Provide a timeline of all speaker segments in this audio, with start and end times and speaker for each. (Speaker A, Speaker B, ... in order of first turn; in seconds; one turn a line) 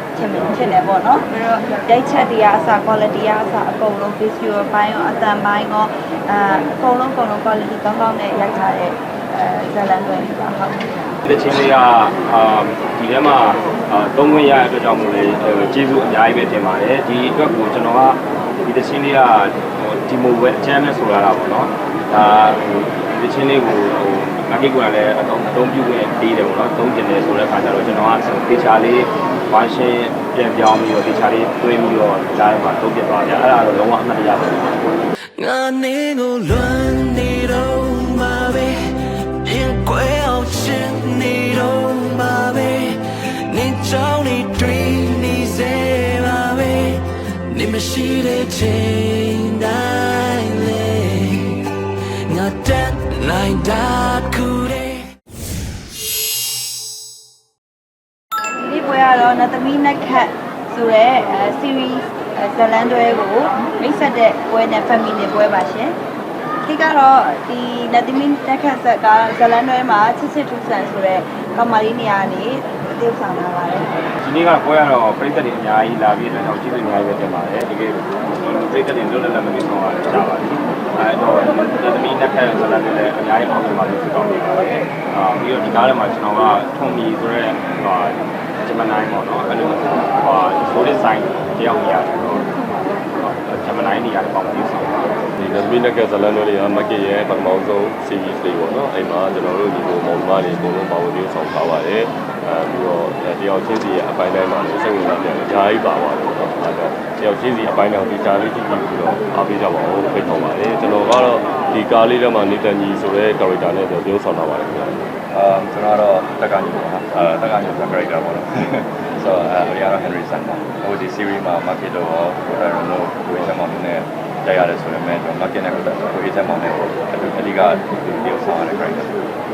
Speaker A: 0.1-11.1
Speaker B: 11.3-35.0
Speaker C: 35.4-51.7
Speaker C: 52.3-55.1
Speaker A: 58.5-66.0
Speaker A: 66.6-73.9
Speaker B: 74.2-92.5
Speaker B: 93.2-95.2
Speaker D: 95.4-115.1
Speaker E: 115.3-129.1